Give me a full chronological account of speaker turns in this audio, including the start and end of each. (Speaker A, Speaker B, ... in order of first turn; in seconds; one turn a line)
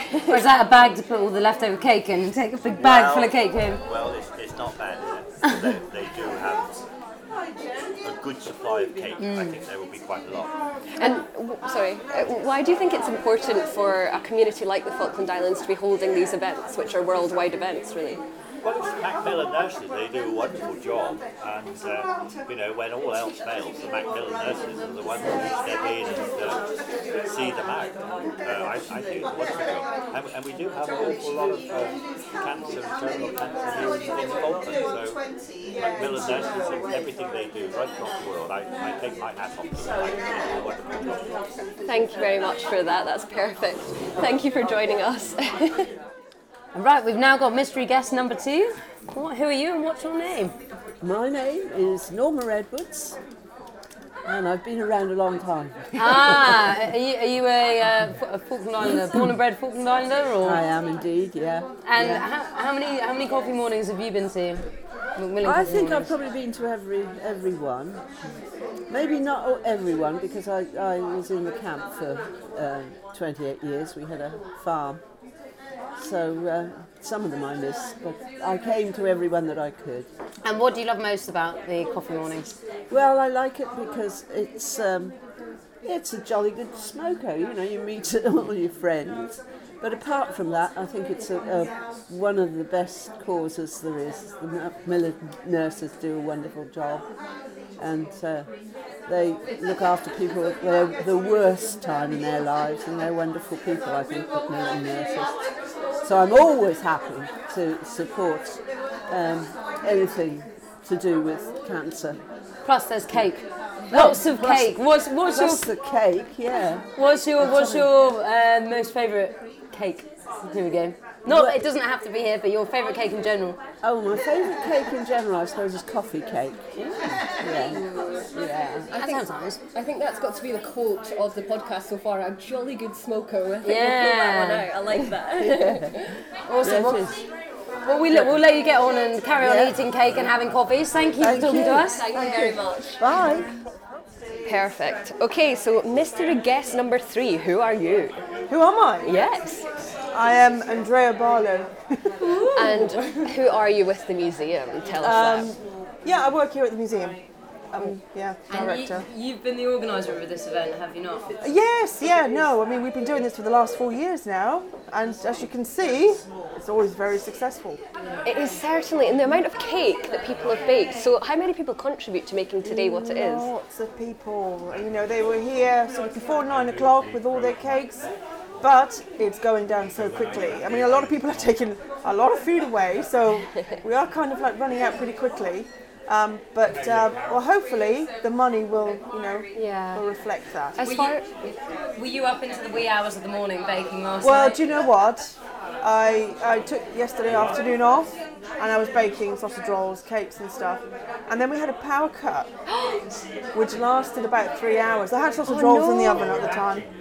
Speaker A: 0.3-3.8
Speaker B: 2.8-6.8
Speaker A: 5.5-5.7
Speaker B: 8.0-10.5
Speaker A: 9.2-9.6
Speaker C: 10.9-18.2
Speaker B: 18.6-26.6
Speaker B: 27.3-35.2
Speaker B: 35.8-41.2
Speaker C: 41.8-45.9
Speaker A: 46.7-50.5
Speaker D: 51.0-53.2
Speaker D: 54.2-56.7
Speaker A: 55.9-60.6
Speaker D: 60.4-62.3
Speaker A: 61.8-66.1
Speaker D: 65.4-68.3
Speaker D: 68.9-75.1
Speaker D: 76.0-80.1
Speaker A: 80.4-82.5
Speaker D: 82.9-85.2
Speaker D: 85.8-97.1
Speaker D: 97.8-105.4
Speaker D: 106.0-112.2
Speaker A: 112.6-115.7
Speaker D: 113.9-117.9
Speaker A: 116.9-123.6
Speaker D: 121.2-121.6
Speaker D: 123.8-127.8
Speaker C: 127.7-128.2
Speaker A: 128.3-129.6
Speaker C: 128.9-136.1
Speaker A: 133.6-134.7
Speaker D: 135.4-135.9
Speaker A: 136.4-137.1
Speaker D: 136.6-137.2
Speaker A: 137.8-142.0
Speaker D: 138.1-138.4
Speaker D: 139.4-139.7
Speaker D: 141.2-143.5
Speaker C: 141.6-143.4
Speaker C: 144.4-148.2
Speaker E: 148.5-149.1
Speaker C: 149.0-149.6
Speaker E: 150.1-152.1
Speaker A: 152.2-153.2
Speaker C: 152.6-155.5
Speaker E: 155.0-159.1
Speaker A: 158.5-161.4
Speaker E: 161.4-167.8
Speaker C: 168.2-173.5
Speaker E: 172.6-178.1
Speaker E: 178.6-190.8
Speaker C: 189.5-190.1
Speaker C: 190.8-191.2
Speaker A: 190.8-194.6
Speaker E: 194.2-202.5
Speaker C: 202.7-203.0
Speaker E: 203.5-206.8
Speaker C: 205.4-206.3